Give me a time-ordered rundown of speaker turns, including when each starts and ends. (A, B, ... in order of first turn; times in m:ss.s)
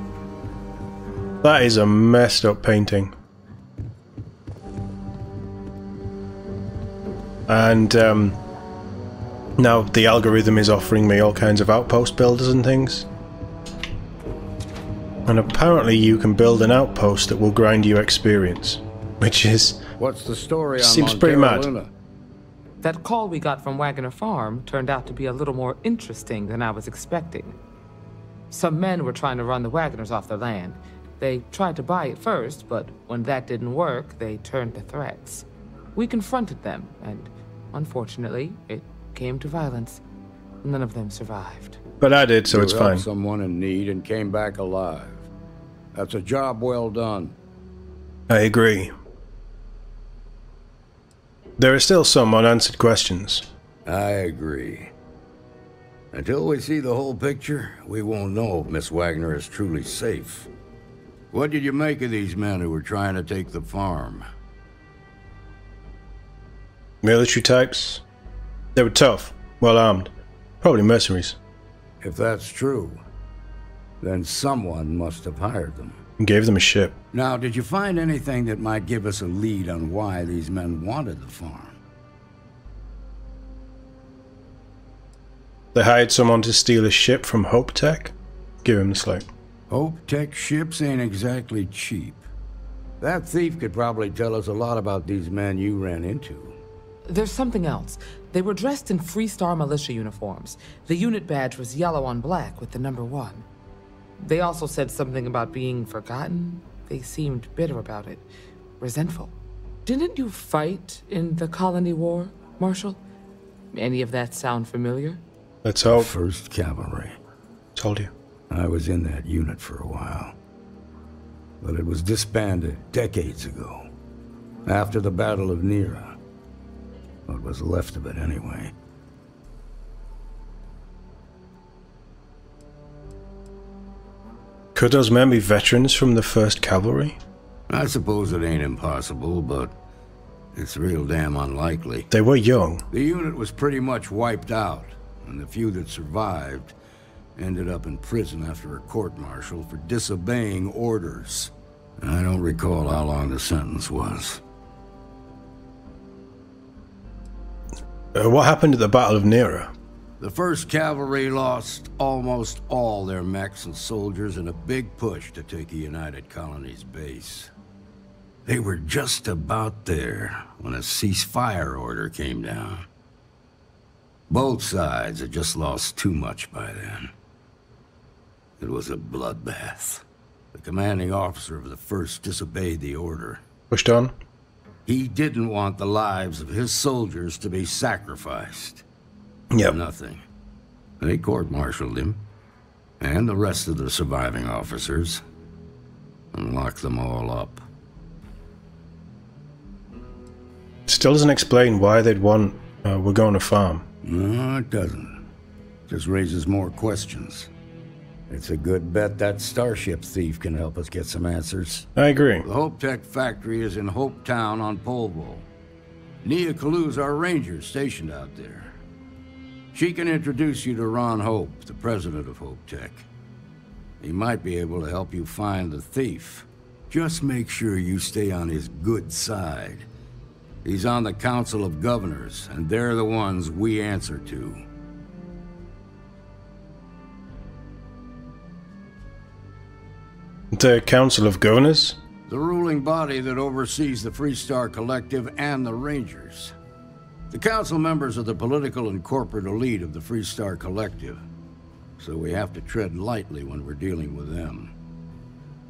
0:01.4-0:03.1 A
0:07.5-0:08.4 A
0:09.6-0:13.1 A
0:15.3-0:19.8 A
0:20.0-0:21.9 B
0:20.8-0:21.7 A
0:22.8-0:27.6 C
0:28.5-0:40.0 C
0:40.6-0:41.8 C
0:42.0-0:43.0 A
0:42.5-0:45.3 B
0:45.9-0:47.4 B
0:48.3-0:48.9 A
0:51.6-0:53.5 A
0:53.8-0:54.9 B
0:56.1-1:00.5 B
1:01.3-1:04.2 B
1:07.0-1:08.0 A
1:08.7-1:10.1 A
1:10.6-1:11.4 A
1:12.0-1:13.0 B
1:14.0-1:16.0 B
1:16.2-1:17.0 A
1:17.1-1:21.8 B
1:25.7-1:29.2 A
1:29.7-1:32.2 B
1:33.0-1:36.6 B
1:37.1-1:43.5 C
1:44.2-1:48.2 C
1:48.8-1:49.3 C
1:49.8-1:53.0 C
1:53.7-1:55.2 C
1:55.6-1:56.1 A
1:55.9-1:57.2 B
1:57.8-1:58.1 A
1:58.5-2:00.4 B
2:01.6-2:03.9 B
2:04.7-2:06.2 B
2:07.3-2:08.7 B
2:14.7-2:17.2 A
2:17.7-2:19.7 B
2:20.5-2:22.1 B
2:22.1-2:22.8 A
2:22.9-2:26.7 B
2:27.4-2:34.4 B
2:38.1-2:39.7 A
2:40.2-2:47.5 B
2:48.4-2:52.9 B
2:54.3-2:57.1 B
2:58.6-3:03.4 B
3:03.7-3:04.1 A
3:04.8-3:08.8 B
3:09.7-3:10.2 B
3:11.0-3:12.2 B
3:13.0-3:15.2 B
3:16.3-3:17.6 B
3:20.9-3:23.8 A
3:24.0-3:25.2 B
3:25.9-3:27.5 B
3:28.3-3:31.9 B
3:32.0-3:32.4 A
3:32.4-3:35.5 B
3:36.2-3:38.7 B
3:39.7-3:43.1 B
3:44.0-3:49.9 B
3:50.6-3:54.6 B
4:00.5-4:02.0 A
4:02.3-4:06.5 B
4:07.3-4:11.2 B
4:12.0-4:14.7 B